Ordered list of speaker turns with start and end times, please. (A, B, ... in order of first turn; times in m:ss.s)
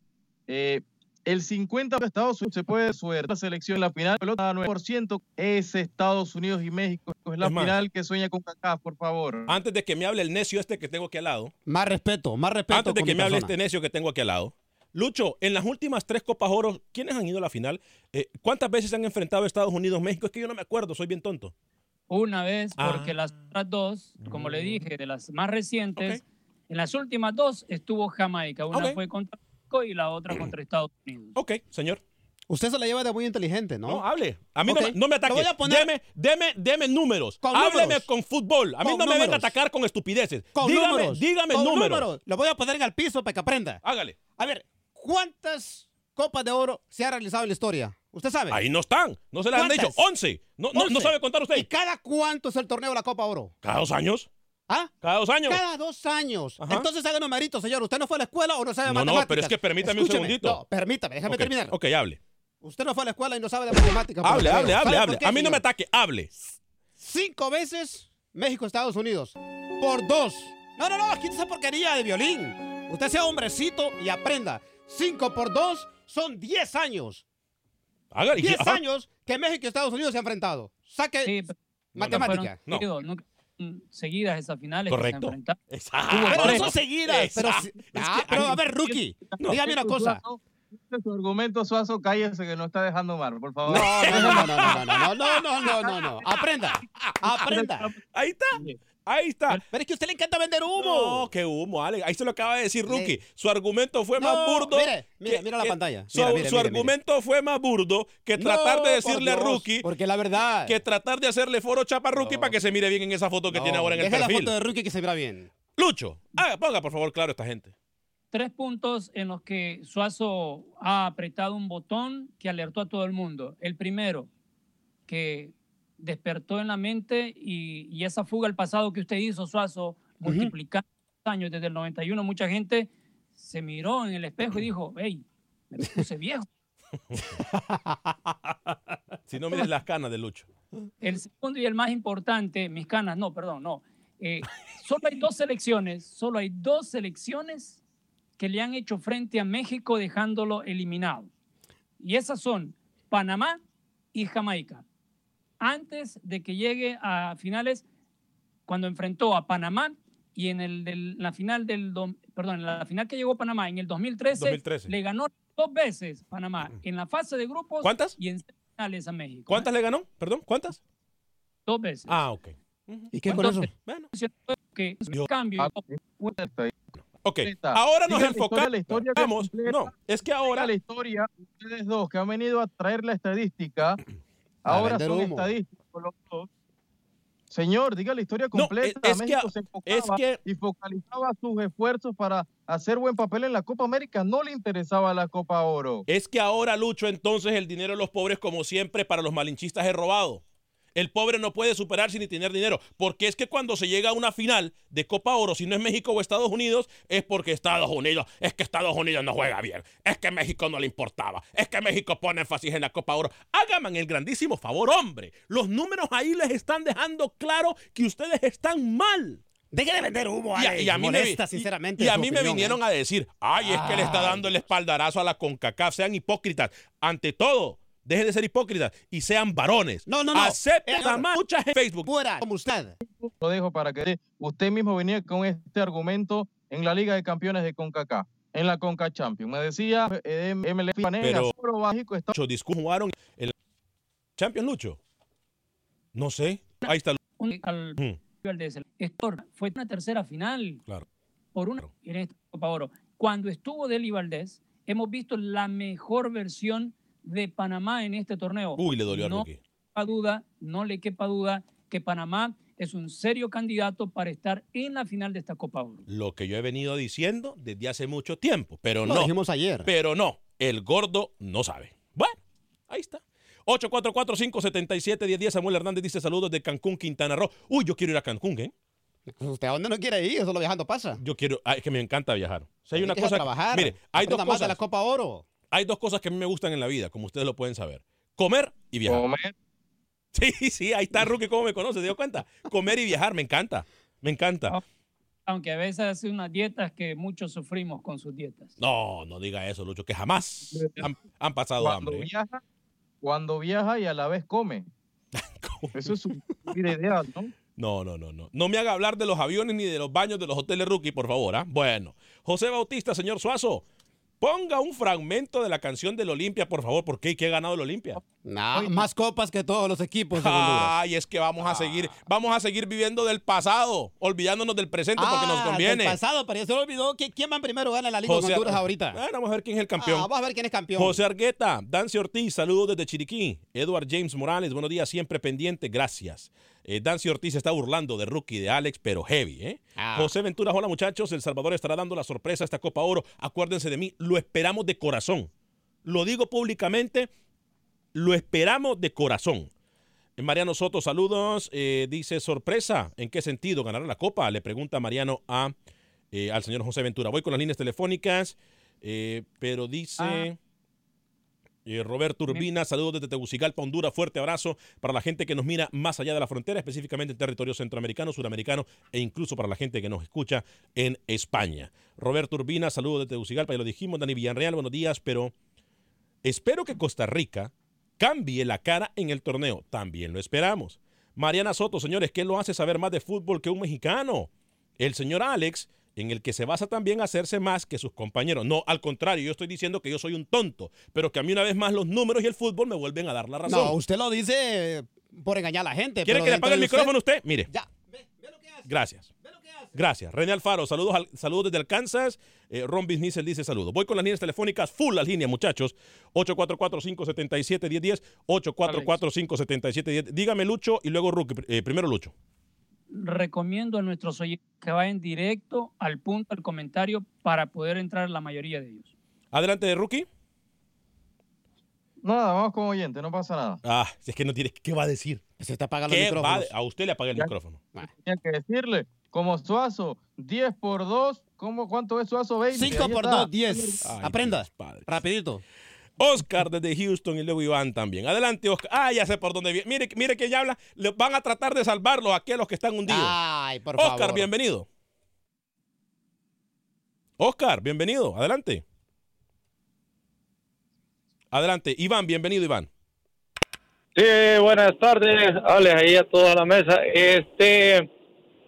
0:00.5-0:09.5 A
0:07.4-0:07.8 B
0:09.5-0:11.5 B
0:11.7-0:13.5 C
0:12.7-0:21.5 B
0:22.1-0:31.4 D
0:22.8-0:23.2 B
0:24.2-0:24.8 B
0:28.7-0:29.0 B
0:31.3-0:32.0 B
0:32.5-0:34.0 C
0:33.8-0:42.1 B
0:34.6-0:35.9 C
0:37.4-0:38.1 C
0:38.8-0:39.5 C
0:40.5-0:43.8 C
0:43.8-0:44.2 B
0:44.4-0:48.6 C
0:48.5-0:51.7 B
0:49.5-0:50.0 C
0:50.7-0:53.5 C
0:53.6-0:54.3 B
0:55.0-0:55.6 B
0:55.4-1:01.7 C
0:56.6-0:56.9 B
0:58.8-1:00.6 B
1:01.3-1:02.2 B
1:02.6-1:05.6 C
1:04.2-1:06.3 B
1:06.4-1:17.2 C
1:18.1-1:18.8 B
1:18.4-1:21.4 C
1:21.2-1:25.6 D
1:21.9-1:22.6 C
1:22.0-1:22.8 B
1:24.9-1:28.6 B
1:26.1-1:26.7 A
1:26.3-1:30.2 C
1:28.3-1:34.8 A
1:29.4-1:29.7 B
1:33.7-1:36.3 B
1:33.7-1:37.9 C
1:37.0-1:37.4 B
1:37.4-1:38.0 A
1:38.1-1:39.6 B
1:38.5-1:38.8 A
1:39.7-1:41.3 C
1:40.8-1:49.8 B
1:42.9-1:43.1 C
1:44.2-1:46.9 C
1:48.4-1:50.8 C
1:50.6-1:54.5 B
1:52.1-1:52.6 C
1:53.5-1:55.5 C
1:55.8-1:57.7 B
1:58.3-2:04.3 D
2:05.1-2:16.5 D
2:10.2-2:10.5 C
2:17.4-2:18.3 C
2:19.3-2:20.5 B
2:21.0-2:27.8 D
2:28.4-2:31.3 D
2:32.0-2:33.6 D
2:34.1-2:34.8 D
2:35.6-2:37.8 D
2:38.7-2:49.7 D
2:44.4-2:44.9 B
2:47.8-2:48.2 B
2:49.5-2:50.8 B
2:51.7-2:52.1 D
2:52.1-2:54.1 B
2:53.1-2:53.7 C
2:53.3-2:56.3 D
2:55.6-2:56.9 A
2:57.2-3:00.7 B
2:57.4-2:59.9 A
3:00.5-3:04.0 A
3:04.6-3:06.5 A
3:04.7-3:05.5 C
3:07.5-3:16.0 A
3:08.5-3:10.4 B
3:16.1-3:20.4 B
3:20.9-3:39.4 B
3:39.7-3:42.8 C
3:40.6-3:52.1 B
3:43.6-3:44.6 C
3:50.1-3:51.2 C
3:52.0-3:52.9 C
3:53.0-4:02.3 A
4:01.2-4:01.5 B
4:02.3-4:03.5 B
4:04.4-4:05.0 B
4:06.1-4:07.2 B
4:07.4-4:10.8 D
4:11.5-4:26.0 D
4:18.8-4:19.6 B
4:26.1-4:29.3 B
4:29.0-4:29.9 C
4:29.8-4:32.4 B
4:32.9-4:38.7 B
4:39.3-4:41.2 C
4:41.2-4:44.8 B
4:43.0-4:45.4 C
4:45.7-4:49.2 B
4:49.0-4:49.5 A
4:50.3-4:54.7 B
4:55.5-4:58.7 D
4:58.8-5:02.3 B
5:00.7-5:01.1 A
5:01.8-5:02.6 A
5:03.2-5:04.9 A
5:05.3-5:06.1 B
5:05.9-5:07.5 A
5:07.8-5:13.8 B
5:14.4-5:18.2 B
5:18.4-5:20.9 C
5:18.7-5:19.0 A
5:20.3-5:26.2 B
5:21.6-5:22.1 C
5:25.2-5:29.2 C
5:28.2-5:30.3 B
5:30.0-5:31.2 C
5:31.0-5:45.5 B
5:40.0-5:40.3 C
5:46.0-5:47.3 B
5:48.1-5:49.7 B
5:50.4-5:55.7 B
5:56.3-6:00.6 B
6:00.2-6:00.4 D
6:01.8-6:15.5 B
6:16.4-6:34.0 B
6:33.6-6:37.1 C
6:36.2-6:37.7 B
6:37.7-6:38.9 C
6:38.9-6:39.3 B
6:39.4-6:40.0 C
6:39.9-6:52.3 B
6:53.1-6:59.1 D
6:59.5-7:00.3 B
7:02.2-7:03.8 A
7:03.8-7:05.4 B
7:05.6-7:06.7 C
7:06.1-7:07.8 B
7:08.1-7:14.0 A
7:12.7-7:15.6 C
7:14.0-7:15.1 B
7:16.2-7:23.4 B
7:23.1-7:24.5 C
7:24.0-7:24.9 B
7:27.4-7:28.8 B
7:31.5-7:32.9 B
7:34.1-7:38.1 E